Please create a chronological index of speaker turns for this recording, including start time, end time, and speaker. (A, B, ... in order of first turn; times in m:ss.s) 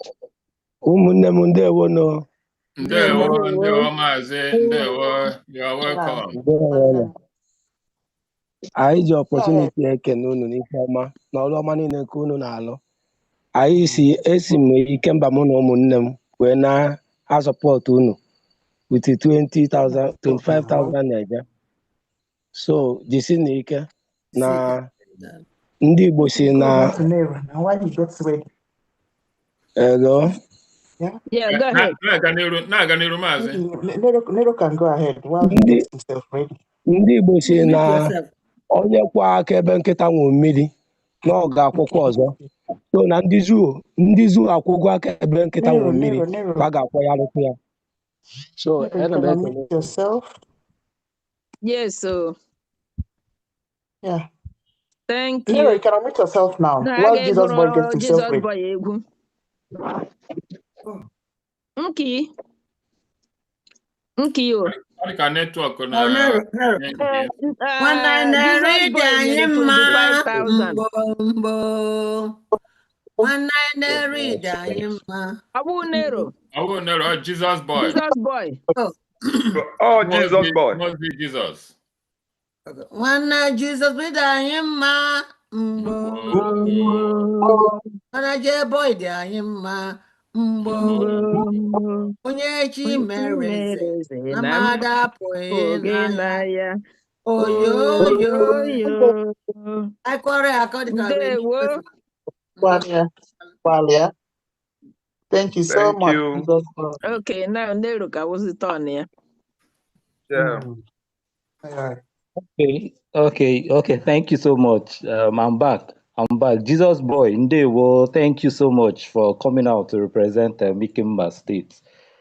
0:00.8-0:02.2 A
0:02.8-0:06.4 B
0:02.8-0:03.3 C
0:03.0-0:03.9 D
0:05.8-0:07.1 C
0:06.3-0:07.1 A
0:08.8-0:12.8 A
0:09.3-0:09.7 C
0:13.5-0:18.2 A
0:18.9-0:21.4 A
0:19.8-0:21.0 C
0:22.5-0:24.9 A
0:24.4-0:25.4 E
0:25.8-0:27.0 A
0:26.4-0:28.4 C
0:29.8-0:30.3 A
0:31.3-0:31.9 D
0:31.5-0:33.6 B
0:33.4-0:36.5 C
0:35.5-0:35.8 A
0:36.9-0:38.1 A
0:37.4-0:38.3 E
0:38.7-0:40.7 A
0:41.2-0:42.4 A
0:41.9-0:42.4 C
0:42.9-0:47.6 A
0:45.6-0:46.7 C
0:48.6-0:49.7 A
0:48.8-0:50.3 C
0:51.6-0:52.4 D
0:55.1-0:55.8 D
0:55.5-0:58.5 C
0:56.8-0:59.0 D
1:01.8-1:02.3 D
1:04.2-1:04.7 D
1:04.7-1:07.3 B
1:05.9-1:07.0 E
1:07.0-1:10.8 D
1:07.8-1:12.4 E
1:13.2-1:15.4 E
1:13.9-1:14.4 C
1:14.1-1:14.9 A
1:15.6-1:16.3 D
1:16.5-1:18.0 B
1:17.8-1:18.6 D
1:19.5-1:20.8 F
1:20.0-1:21.7 B
1:22.7-1:26.9 E
1:25.9-1:27.1 B
1:26.8-1:27.6 D
1:27.4-1:27.8 C
1:28.1-1:31.3 E
1:30.6-1:31.6 B
1:30.9-1:32.1 D
1:32.2-1:36.4 E
1:32.8-1:34.8 D
1:35.5-1:36.7 D
1:37.3-1:38.8 E
1:37.4-1:39.9 D
1:38.0-1:39.1 C
1:40.0-1:41.8 E
1:40.9-1:41.8 D
1:42.6-1:42.9 E
1:42.6-1:43.1 C
1:43.6-1:44.1 C
1:45.3-1:47.0 C
1:45.7-1:46.5 F
1:47.0-1:49.1 D
1:50.3-1:50.7 F
1:50.3-1:50.8 C
1:51.6-1:52.0 C
1:52.4-2:01.8 G